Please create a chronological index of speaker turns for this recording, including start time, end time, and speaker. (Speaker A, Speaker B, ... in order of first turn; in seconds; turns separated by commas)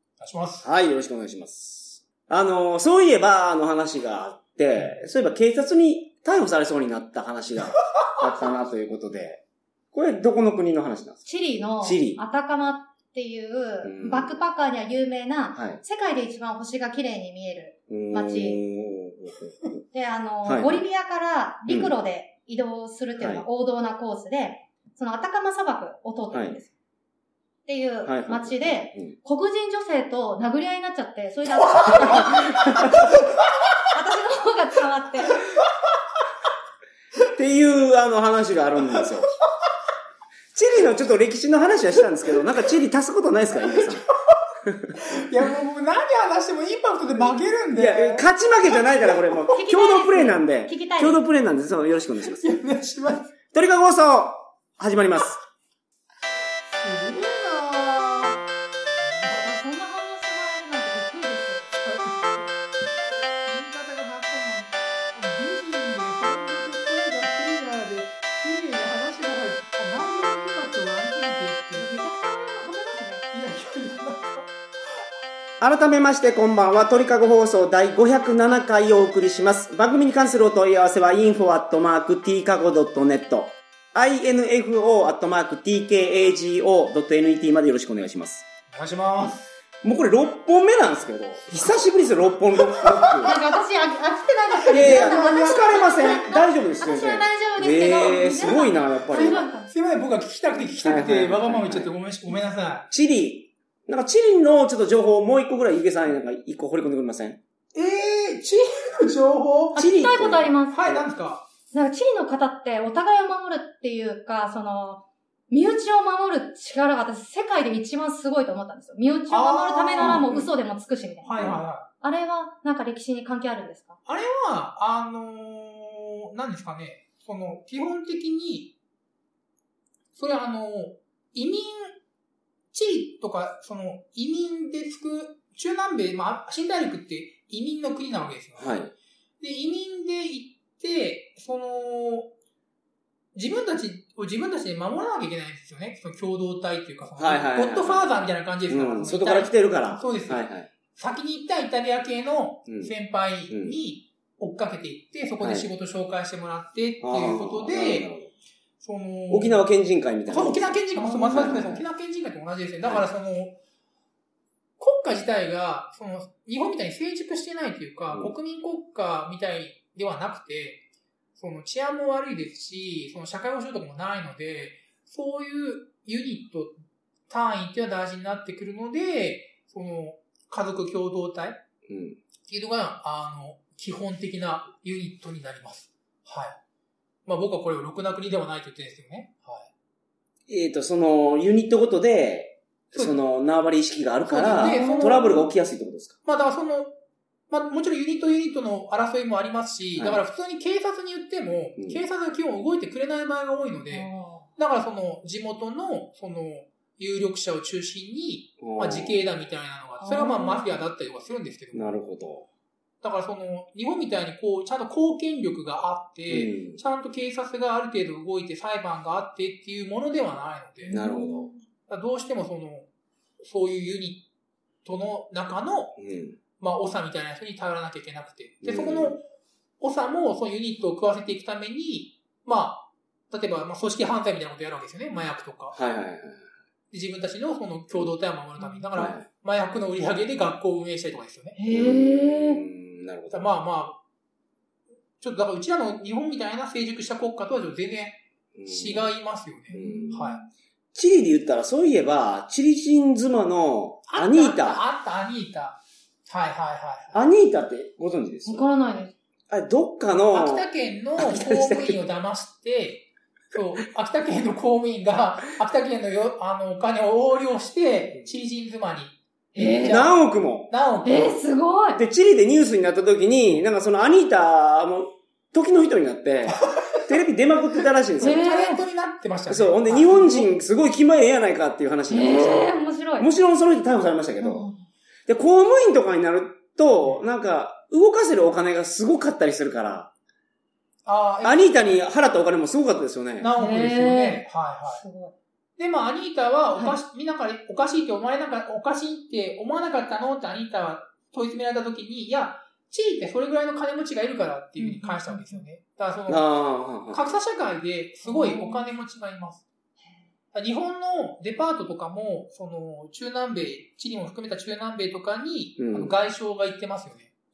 Speaker A: 0.2-0.6, Speaker B: 0.6-11.2, Speaker C: 11.2-18.6, Speaker B: 11.8-12.2, Speaker B: 13.8-14.3, Speaker B: 15.5-15.8, Speaker B: 17.9-19.8, Speaker C: 19.9-26.7, Speaker B: 20.4-20.8, Speaker B: 21.7-21.9, Speaker B: 23.2-23.4, Speaker B: 26.3-26.6, Speaker C: 27.6-33.2, Speaker B: 28.0-29.1, Speaker B: 32.1-33.0, Speaker C: 33.9-35.4, Speaker B: 37.3-39.3, Speaker B: 40.5-44.0, Speaker A: 43.6-44.0, Speaker A: 45.0-49.4, Speaker B: 47.7-52.5, Speaker C: 49.5-51.2, Speaker A: 52.2-53.3, Speaker B: 53.5-55.4, Speaker A: 56.7-58.4, Speaker A: 59.0-59.5, Speaker C: 59.2-62.0, Speaker A: 62.0-62.4, Speaker A: 63.4-71.9, Speaker C: 71.7-73.3, Speaker A: 73.3-74.5, Speaker B: 75.6-88.5, Speaker A: 88.7-89.5, Speaker B: 89.8-93.3, Speaker A: 91.5-91.8, Speaker A: 92.5-93.4, Speaker C: 93.2-99.7, Speaker A: 94.7-95.6, Speaker B: 94.7-99.4, Speaker A: 99.1-102.9, Speaker B: 100.6-101.9, Speaker B: 102.9-107.4, Speaker A: 107.7-109.8, Speaker C: 109.7-110.8, Speaker B: 109.8-111.0, Speaker A: 110.7-111.4, Speaker C: 111.7-121.5, Speaker A: 119.3-120.3, Speaker B: 120.0-120.5, Speaker A: 121.2-121.8, Speaker C: 122.0-124.0, Speaker A: 124.0-128.7, Speaker A: 130.2-132.0, Speaker A: 132.7-138.9, Speaker B: 138.6-138.9, Speaker A: 139.4-142.3, Speaker A: 143.3-158.1, Speaker B: 147.2-148.1, Speaker B: 148.7-150.7, Speaker B: 152.7-152.9, Speaker B: 153.5-153.8, Speaker B: 155.4-155.7, Speaker B: 157.0-158.3, Speaker A: 158.8-159.7, Speaker B: 159.3-161.8, Speaker A: 160.3-163.6, Speaker A: 164.8-170.8, Speaker A: 171.3-181.6, Speaker B: 181.9-182.2, Speaker A: 182.5-186.6, Speaker A: 187.2-189.7, Speaker B: 190.5-196.2, Speaker A: 194.2-195.5, Speaker C: 194.6-195.3, Speaker A: 196.2-196.9, Speaker A: 197.5-212.0, Speaker B: 199.9-200.2, Speaker C: 203.9-204.5, Speaker B: 208.6-209.3, Speaker C: 210.0-210.8, Speaker B: 211.7-212.5, Speaker A: 213.0-221.0, Speaker B: 216.3-216.8, Speaker C: 220.9-221.6, Speaker B: 220.9-221.5, Speaker A: 221.9-222.9, Speaker A: 223.4-224.2, Speaker A: 224.8-226.0, Speaker B: 226.0-226.4, Speaker A: 226.6-229.2, Speaker B: 228.6-229.2, Speaker A: 229.8-235.8, Speaker B: 235.7-236.5, Speaker A: 236.9-241.6, Speaker C: 238.6-238.8, Speaker B: 238.9-239.3, Speaker C: 241.6-242.6, Speaker B: 241.7-243.5, Speaker A: 243.3-244.0, Speaker A: 245.2-250.4, Speaker B: 248.6-249.1, Speaker C: 249.7-250.5, Speaker B: 249.7-250.3, Speaker B: 250.9-254.8, Speaker A: 254.1-257.2, Speaker B: 257.1-258.7, Speaker C: 258.4-259.1, Speaker B: 259.5-262.0, Speaker A: 260.3-270.1, Speaker C: 269.5-270.1, Speaker B: 269.8-270.7, Speaker A: 270.7-271.4, Speaker C: 271.0-272.0, Speaker B: 272.0-278.4, Speaker A: 276.5-277.1, Speaker A: 278.1-280.4, Speaker C: 278.2-278.8, Speaker B: 279.5-284.7, Speaker C: 280.1-280.5, Speaker C: 282.1-283.3, Speaker C: 284.4-284.9, Speaker B: 285.3-290.1, Speaker A: 291.1-291.7, Speaker B: 291.4-293.5, Speaker A: 293.4-295.0, Speaker C: 293.6-295.3, Speaker A: 295.8-309.6, Speaker C: 304.8-305.6, Speaker B: 306.3-307.2, Speaker C: 308.2-308.9, Speaker A: 310.5-317.3, Speaker B: 315.8-316.1